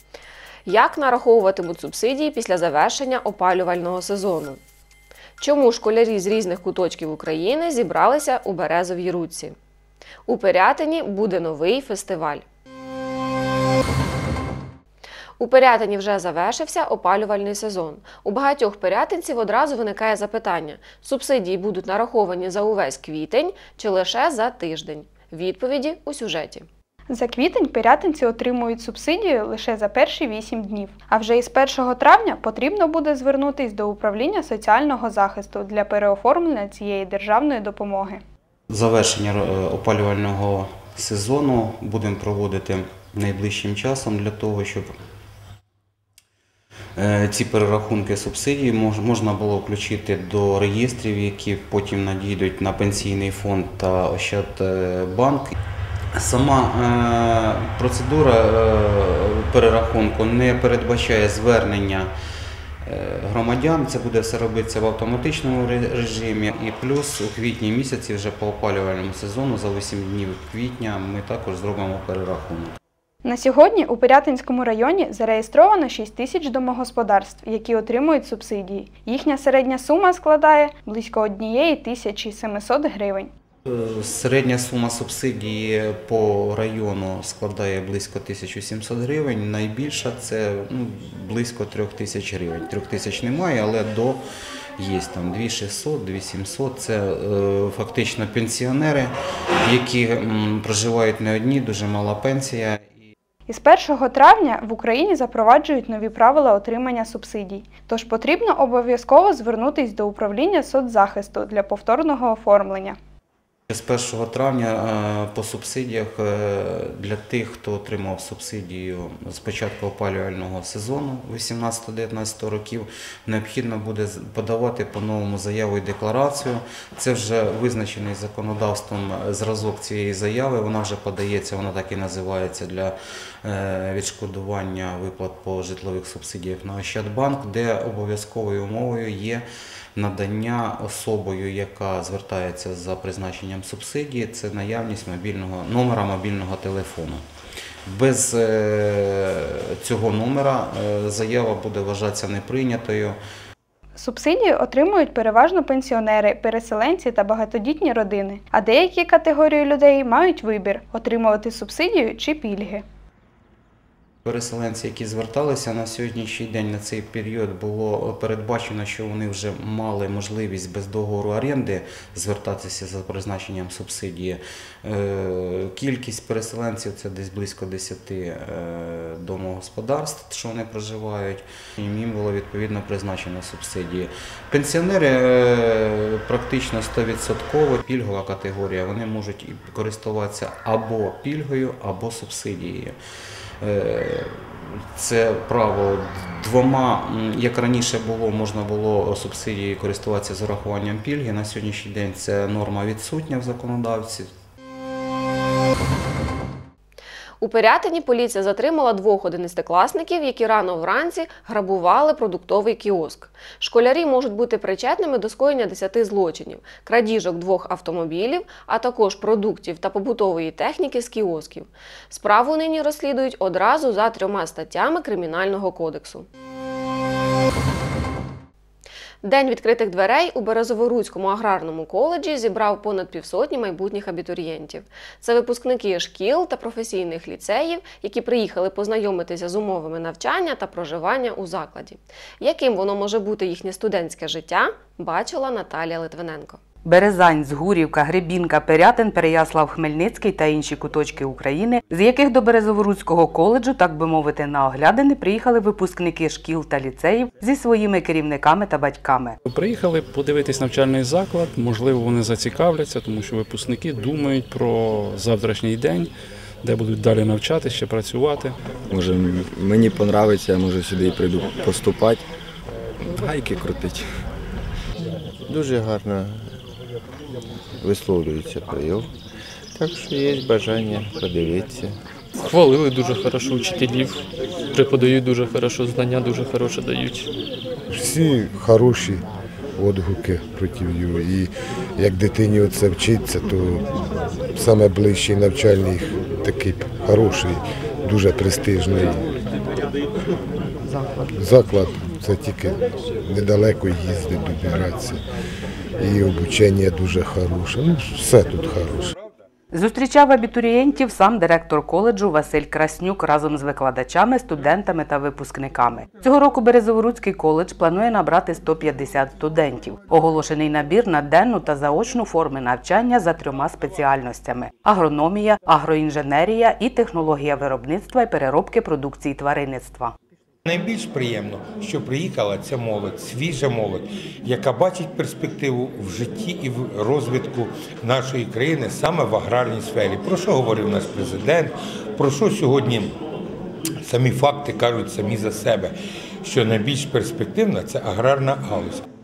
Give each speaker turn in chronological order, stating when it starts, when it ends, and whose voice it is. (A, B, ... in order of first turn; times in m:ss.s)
0:00.7-0:04.6 A
0:05.4-0:09.6 A
0:10.3-0:12.4 A
0:15.4-0:26.7 A
0:27.1-0:38.2 B
0:38.7-0:44.9 C
0:47.0-0:55.5 C
0:56.2-1:02.1 C
1:02.8-1:12.8 C
1:13.2-1:23.3 B
1:23.7-1:34.2 C
1:34.8-1:39.1 C
1:39.6-1:42.9 C
1:43.5-1:53.0 B
1:53.7-2:27.2 C
2:27.9-2:33.2 C
2:34.0-2:42.8 B
2:44.2-3:13.0 C
3:13.6-3:24.3 C
3:27.4-3:46.3 A
3:49.2-4:06.6 A
4:06.8-4:19.4 D
4:19.5-4:26.1 E
4:26.6-4:28.6 E
4:28.9-4:32.2 F
4:33.2-4:34.1 F
4:35.5-4:36.5 G
4:37.8-4:39.1 G
4:39.8-4:42.0 G
4:42.5-4:44.1 H
4:44.8-4:47.3 H
4:47.9-4:49.2 I
4:49.8-4:53.9 I
4:54.6-4:59.3 I
5:01.3-5:05.2 I
5:06.0-5:09.1 I
5:09.7-5:30.1 D
5:30.6-5:43.2 J
5:44.0-5:49.0 J